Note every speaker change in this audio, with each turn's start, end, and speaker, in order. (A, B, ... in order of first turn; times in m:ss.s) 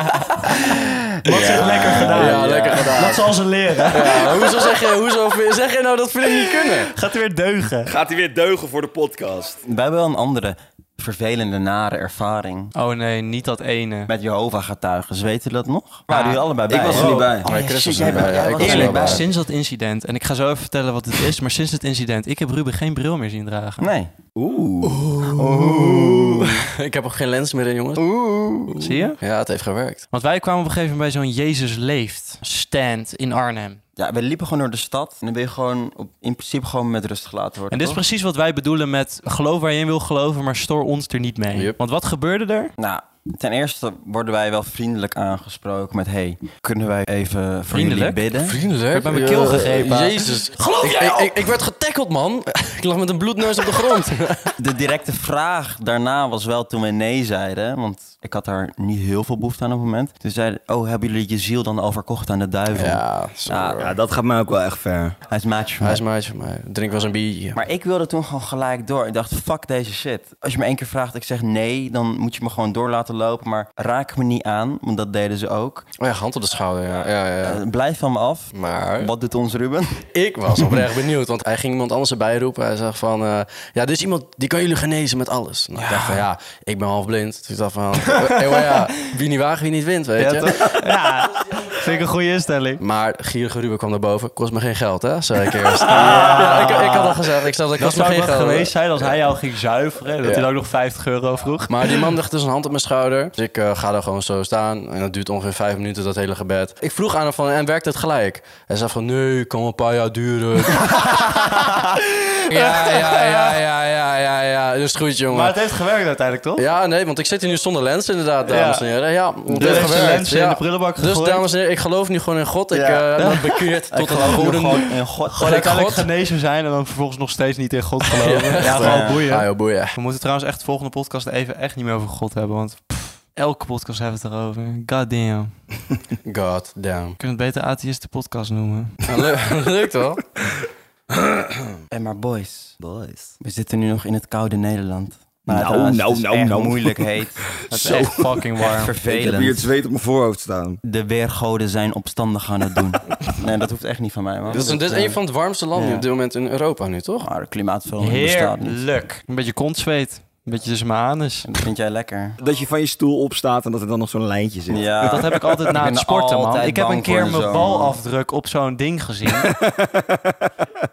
0:00.5-0:02.8 A
0:01.2-0:04.6 B
0:01.3-0:03.3 C
0:03.9-0:06.9 C
0:06.2-0:07.9 B
0:07.8-0:09.6 D
0:09.6-0:12.7 A
0:12.7-0:14.1 B
0:14.1-0:19.3 A
0:16.1-0:17.2 B
0:16.7-0:17.5 D
0:17.4-0:19.2 C
0:18.5-0:23.9 B
0:23.8-0:24.1 A
0:24.4-0:25.0 D
0:24.8-0:28.1 C
0:25.3-0:26.6 A
0:28.0-0:28.7 A
0:28.6-0:30.0 C
0:28.8-0:29.2 B
0:30.1-0:33.8 B
0:34.0-0:38.0 A
0:37.7-0:42.7 B
0:42.8-0:48.6 A
0:47.7-0:48.2 B
0:48.4-0:54.5 C
0:48.9-0:50.4 B
0:50.6-0:51.3 D
0:54.6-1:03.8 A
1:02.7-1:04.0 C
1:03.8-1:05.2 D
1:05.3-1:06.0 A
1:05.8-1:07.6 C
1:07.5-1:15.9 A
1:16.0-1:17.6 C
1:17.4-1:20.0 A
1:18.5-1:19.1 C
1:20.1-1:30.5 C
1:28.4-1:28.8 B
1:30.2-1:32.8 B
1:32.8-1:39.2 C
1:35.8-1:42.0 B
1:40.2-1:40.5 C
1:41.7-1:51.8 C
1:50.9-1:51.4 B
1:52.4-1:53.6 B
1:52.5-1:55.6 C
1:55.3-1:56.6 B
1:56.6-2:06.1 C
1:58.5-1:58.9 B
1:59.5-2:01.4 B
1:59.6-2:00.1 A
2:02.7-2:03.1 A
2:03.2-2:03.5 B
2:03.9-2:05.4 A
2:05.3-2:15.5 B
2:08.2-2:09.9 C
2:08.6-2:09.2 A
2:16.2-2:17.2 C
2:17.2-2:19.0 B
2:19.0-2:20.2 C
2:21.2-2:21.5 D
2:21.9-2:22.8 A
2:22.8-2:23.3 D
2:23.4-2:29.7 A
2:25.5-2:27.0 D
2:27.7-2:28.9 B
2:27.8-2:28.2 D
2:29.0-2:30.8 D
2:30.8-2:35.2 A
2:34.5-2:37.3 C
2:35.7-2:36.1 A
2:37.2-2:38.8 A
2:38.0-2:41.5 B
2:41.4-2:42.4 A
2:42.4-2:45.6 D
2:44.7-2:48.0 A
2:45.0-2:49.6 B
2:49.5-2:50.5 D